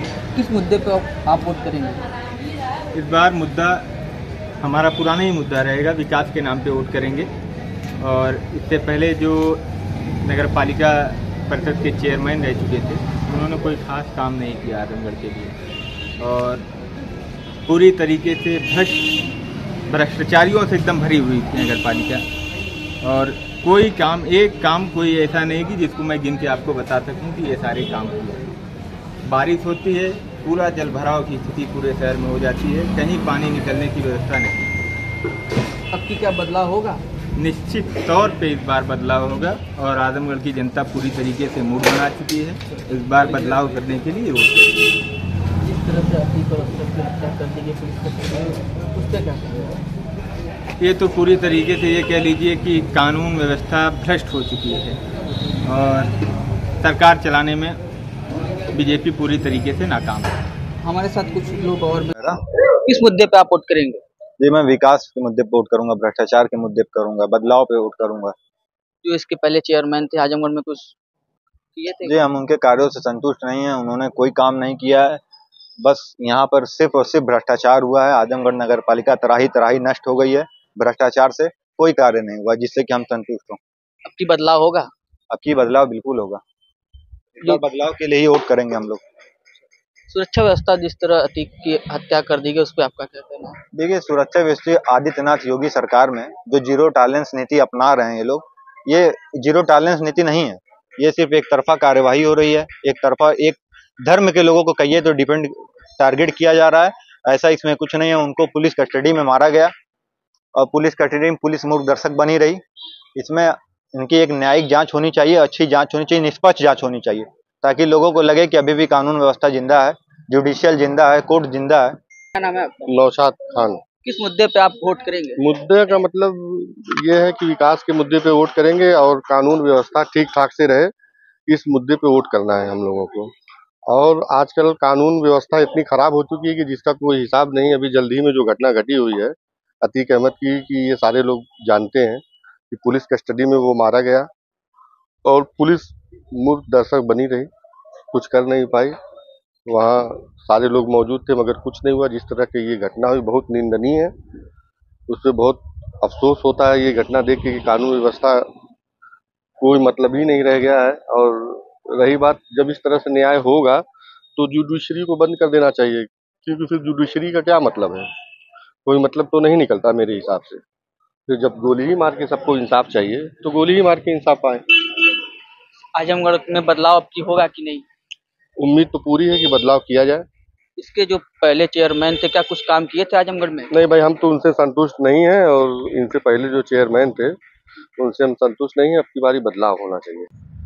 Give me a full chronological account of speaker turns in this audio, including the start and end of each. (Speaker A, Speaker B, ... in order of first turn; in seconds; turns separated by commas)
Speaker A: 0.3-2.1, Speaker B: 2.9-3.8, Speaker B: 4.6-7.3, Speaker B: 8.0-9.6, Speaker B: 10.2-15.5, Speaker B: 16.2-16.6, Speaker B: 17.6-19.1, Speaker B: 19.9-22.3, Speaker B: 23.0-28.5, Speaker B: 29.2-34.7, Speaker A: 35.9-37.0, Speaker B: 37.4-45.0, Speaker A: 45.6-49.8, Speaker B: 50.8-55.0, Speaker B: 55.6-56.1, Speaker B: 56.8-57.8, Speaker B: 58.7-60.4, Speaker A: 60.8-62.1, Speaker A: 62.7-64.0, Speaker C: 64.4-68.3, Speaker A: 69.0-71.0, Speaker A: 71.8-72.1, Speaker C: 72.0-75.2, Speaker C: 75.8-83.6, Speaker A: 84.0-84.9, Speaker C: 85.3-86.4, Speaker C: 87.4-89.0, Speaker A: 90.1-93.6, Speaker C: 93.7-109.7, Speaker C: 110.5-112.6, Speaker C: 113.1-122.0, Speaker A: 122.3-122.9, Speaker D: 122.9-123.8, Speaker A: 124.0-125.4, Speaker D: 125.4-130.9, Speaker D: 131.5-133.3, Speaker D: 133.9-144.3, Speaker D: 145.2-147.5, Speaker D: 148.1-148.9, Speaker D: 149.7-154.1, Speaker D: 155.1-158.5, Speaker D: 159.6-163.8, Speaker D: 164.4-168.1, Speaker D: 168.8-170.6, Speaker D: 171.3-174.6, Speaker A: 175.9-177.8, Speaker D: 178.6-180.2, Speaker A: 180.8-183.7, Speaker D: 183.7-187.4, Speaker D: 188.0-190.3